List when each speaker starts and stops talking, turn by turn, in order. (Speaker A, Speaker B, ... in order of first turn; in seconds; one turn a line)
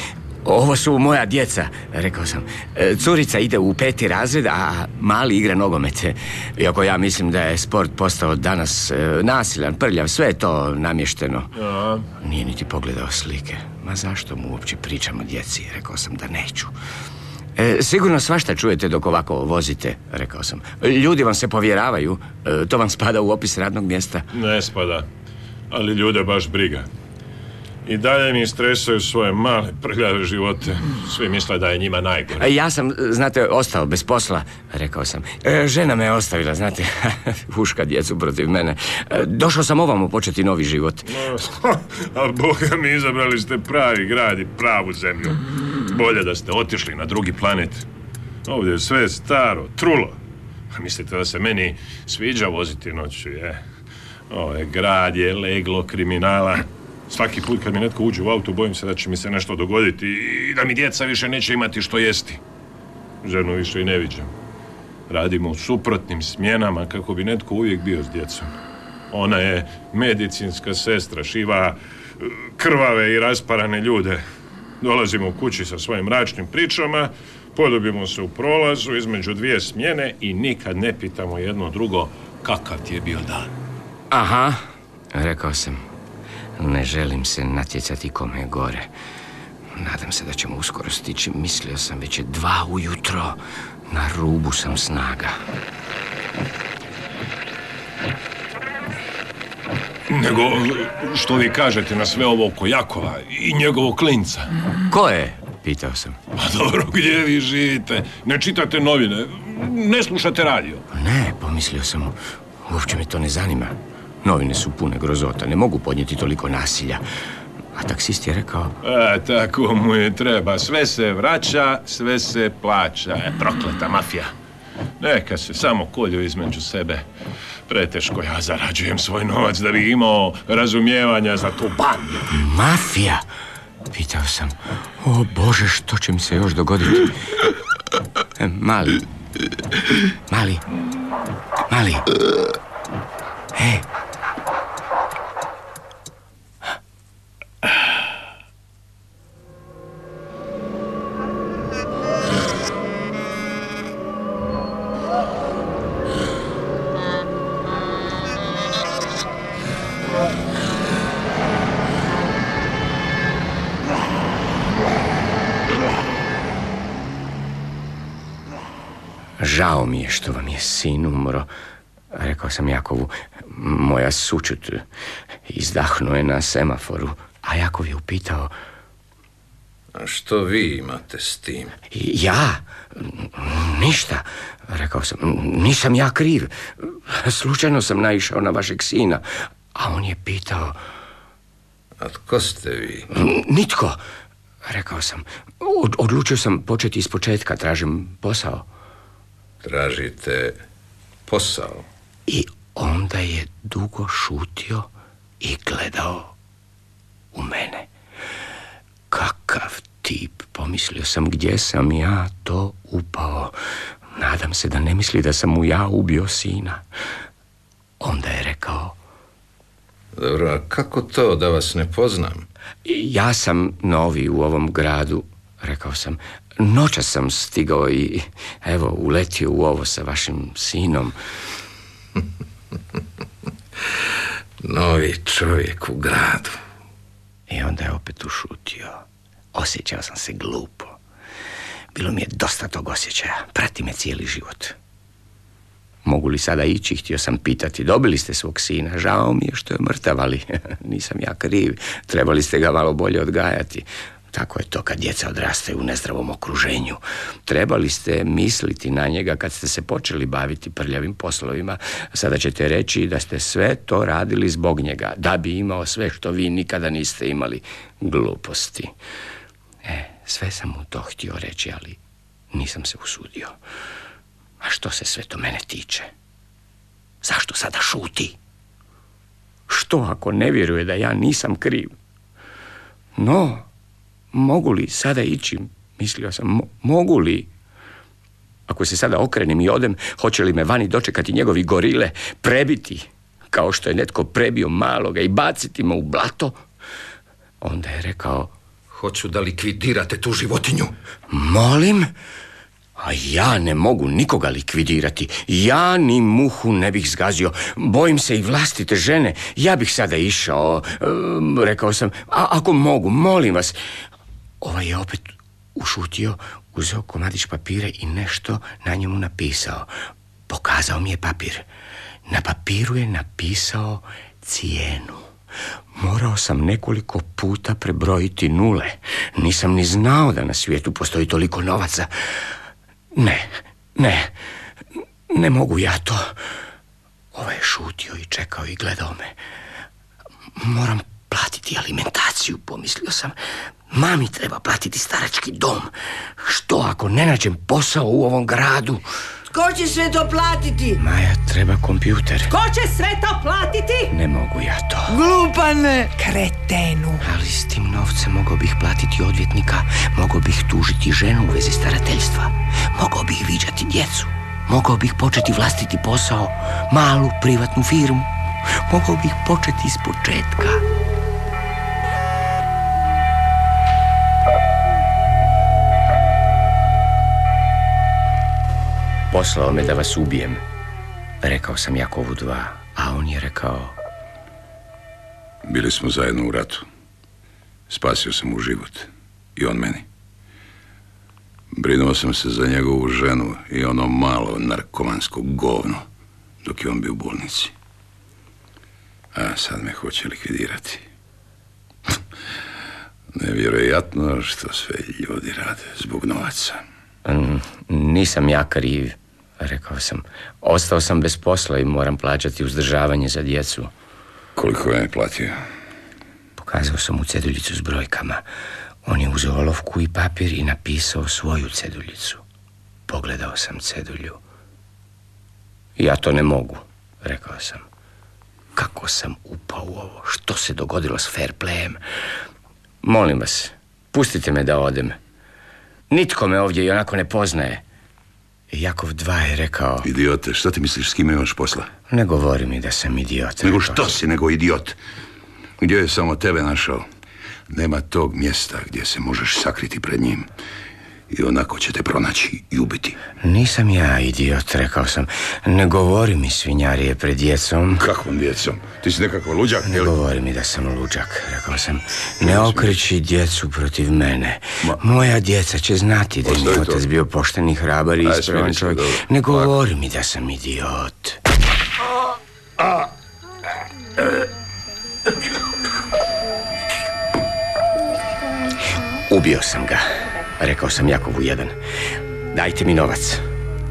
Speaker A: 0.4-11.5
Speaker B: 11.6-12.1
Speaker A: 12.2-16.7
Speaker A: 17.6-24.3
Speaker B: 24.3-25.1
Speaker B: 25.7-26.9
Speaker B: 27.9-32.5
Speaker A: 32.4-41.2
Speaker B: 41.1-47.9
Speaker B: 48.5-50.1
Speaker B: 50.7-53.6
Speaker B: 54.3-62.4
Speaker B: 63.2-64.3
Speaker B: 65.1-68.5
Speaker B: 69.1-74.2
Speaker B: 74.8-83.5
Speaker A: 84.1-85.8
Speaker A: 86.6-88.9
Speaker A: 89.7-95.4
Speaker B: 100.1-104.5
Speaker A: 104.9-106.2
Speaker B: 106.3-110.8
Speaker A: 110.9-117.0
Speaker A: 117.7-118.8
Speaker B: 118.8-124.3
Speaker B: 125.0-127.0
Speaker B: 127.7-132.3
Speaker A: 132.3-133.2
Speaker A: 133.9-137.2
Speaker A: 138.4-139.0
Speaker A: 140.3-140.6
Speaker A: 141.7-142.1
Speaker A: 143.5-143.9
Speaker A: 169.4-171.5
Speaker A: 172.1-174.8
Speaker A: 175.5-178.5
Speaker C: 179.9-181.7
Speaker A: 181.9-190.8
Speaker C: 192.0-193.1
Speaker A: 193.1-194.0
Speaker A: 194.6-198.7
Speaker C: 199.6-200.6
Speaker C: 201.3-201.8
Speaker A: 202.3-206.3
Speaker A: 207.3-207.9
Speaker A: 209.1-213.5
Speaker A: 214.1-216.8
Speaker A: 218.0-219.0
Speaker C: 220.2-222.4
Speaker A: 222.8-231.2
Speaker C: 234.6-236.6
Speaker A: 237.5-241.0
Speaker A: 241.9-244.8
Speaker A: 246.0-268.9
Speaker A: 269.8-272.0
Speaker A: 272.5-273.6
Speaker A: 274.6-276.1
Speaker A: 277.2-278.4
Speaker A: 279.7-281.9
Speaker A: 283.1-283.7
Speaker A: 284.3-287.5
Speaker A: 288.7-296.6
Speaker A: 297.6-298.5
Speaker C: 298.9-300.9
Speaker A: 301.3-302.1
Speaker A: 303.0-313.8
Speaker A: 314.6-319.9
Speaker A: 320.5-321.7
Speaker A: 322.3-325.3
Speaker A: 325.9-332.1
Speaker A: 333.1-334.3
Speaker A: 335.3-336.4
Speaker A: 337.3-339.4
Speaker A: 340.6-343.4
Speaker A: 343.9-349.0
Speaker D: 349.5-351.0
Speaker A: 351.0-352.5
Speaker E: 352.5-354.1
Speaker A: 354.1-355.1
Speaker D: 355.1-356.2
Speaker E: 356.3-357.1
Speaker A: 357.2-370.8
Speaker A: 379.3-380.6
Speaker A: 381.4-384.0
Speaker F: 385.6-386.8
Speaker F: 387.9-390.1
Speaker F: 391.7-396.0
Speaker F: 396.6-397.7
Speaker F: 399.3-401.0
Speaker F: 403.3-406.8
Speaker A: 407.2-413.9
Speaker F: 414.6-415.6
Speaker A: 416.6-418.4
Speaker A: 419.0-422.4
Speaker A: 423.1-424.4
Speaker A: 426.0-427.8
Speaker A: 428.7-432.0
Speaker A: 433.0-435.1
Speaker A: 436.1-437.8
Speaker A: 438.7-440.1
Speaker F: 440.0-441.9
Speaker A: 442.1-444.2
Speaker F: 443.6-445.0
Speaker F: 445.8-447.1
Speaker F: 447.7-450.5
Speaker F: 451.3-453.2
Speaker A: 453.4-458.0
Speaker F: 458.0-460.1
Speaker A: 459.8-471.4
Speaker F: 462.4-463.0
Speaker F: 466.4-467.0
Speaker F: 468.2-469.7
Speaker A: 479.3-481.8
Speaker A: 482.5-483.4